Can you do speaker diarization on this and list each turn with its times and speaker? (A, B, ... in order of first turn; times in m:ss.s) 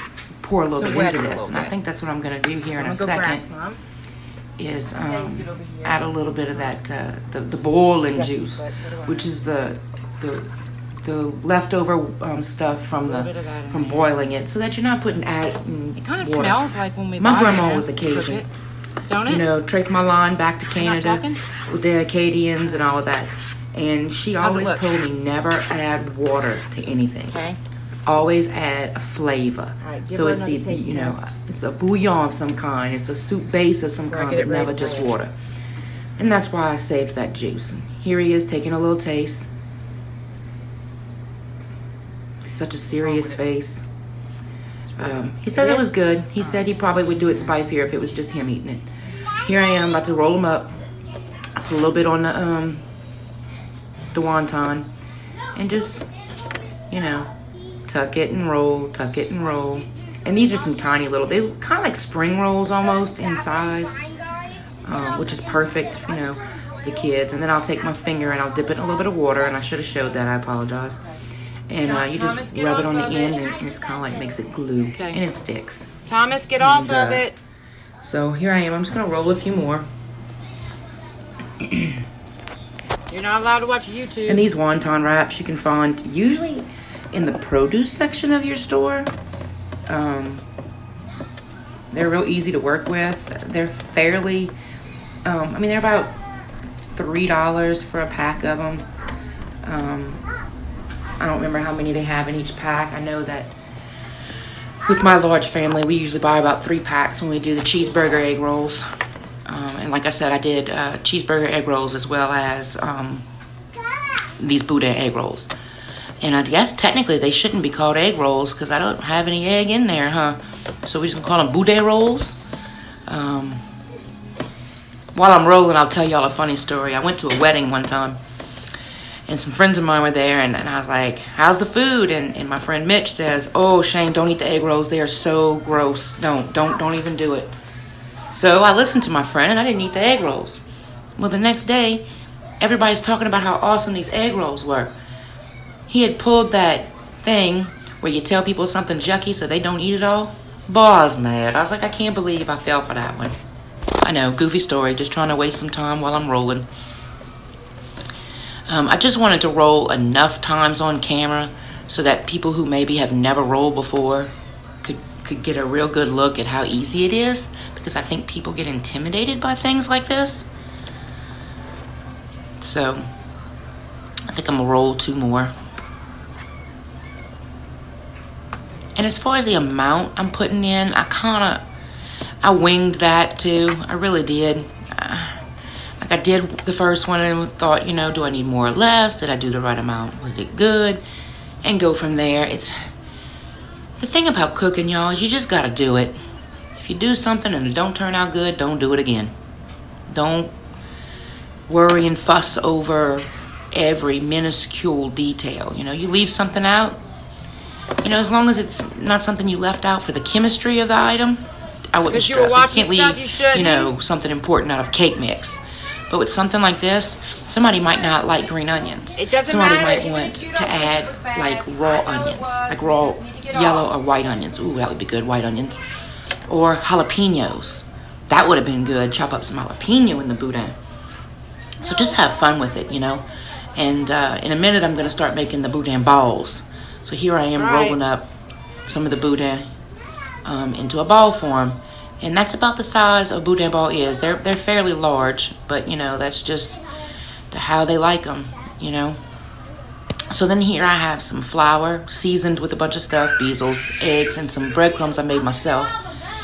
0:00.4-0:03.4 A
0:00.8-0:01.7 B
0:02.7-0:03.8 B
0:04.6-0:10.5 A
0:04.9-0:06.8 B
0:08.1-0:09.3 B
0:11.0-0:16.6 A
0:13.0-0:14.1 B
0:16.0-0:18.5 B
0:17.2-0:18.4 A
0:19.1-0:19.4 B
0:19.2-0:27.4 A
0:20.7-0:21.4 B
0:22.7-0:22.9 B
0:24.4-0:25.0 B
0:27.3-0:27.6 B
0:28.1-0:35.3 A
0:29.8-0:31.3 B
0:34.1-0:35.1 B
0:36.2-0:39.5 A
0:42.4-0:43.8 A
0:43.0-0:43.4 B
0:45.0-0:50.8 A
0:45.4-0:47.5 B
0:51.6-0:52.8 A
0:54.1-0:54.9 A
0:55.5-0:56.1 A
0:56.9-0:57.3 A
0:57.8-1:04.2 A
1:04.8-1:11.0 A
1:11.7-1:16.0 A
1:11.8-1:13.5 B
1:16.0-1:17.4 B
1:16.6-1:17.3 A
1:18.0-1:19.9 A
1:21.6-1:21.9 A
1:23.1-1:24.5 B
1:24.2-1:29.1 A
1:29.9-1:30.4 A
1:31.9-1:34.5 A
1:35.2-1:36.2 A
1:36.7-1:38.8 A
1:39.6-1:40.2 A
1:41.2-1:43.5 A
1:44.8-1:48.9 A
1:49.4-1:53.2 A
1:54.4-1:55.5 A
1:56.2-2:02.4 A
2:03.1-2:03.6 A
2:05.1-2:08.2 A
2:09.3-2:17.5 A
2:18.3-2:20.6 A
2:21.2-2:22.0 A
2:22.6-2:24.9 A
2:25.9-2:33.4 A
2:34.0-2:36.7 A
2:38.7-2:44.3 A
2:44.8-2:50.5 A
2:52.6-2:53.0 A
2:54.3-2:55.5 A
2:59.0-3:01.6 A
3:02.4-3:05.4 A
3:06.0-3:11.0 A
3:11.6-3:12.7 A
3:14.0-3:16.2 A
3:16.8-3:19.3 A
3:20.1-3:20.5 A
3:21.7-3:27.0 A
3:28.0-3:45.8 A
3:32.1-3:33.9 B
3:39.2-3:43.9 B
3:46.5-3:50.8 A
3:51.8-3:58.3 A
3:57.5-3:58.0 B
3:58.8-3:59.7 A
4:00.4-4:06.8 A
4:07.5-4:09.2 A
4:10.2-4:16.1 A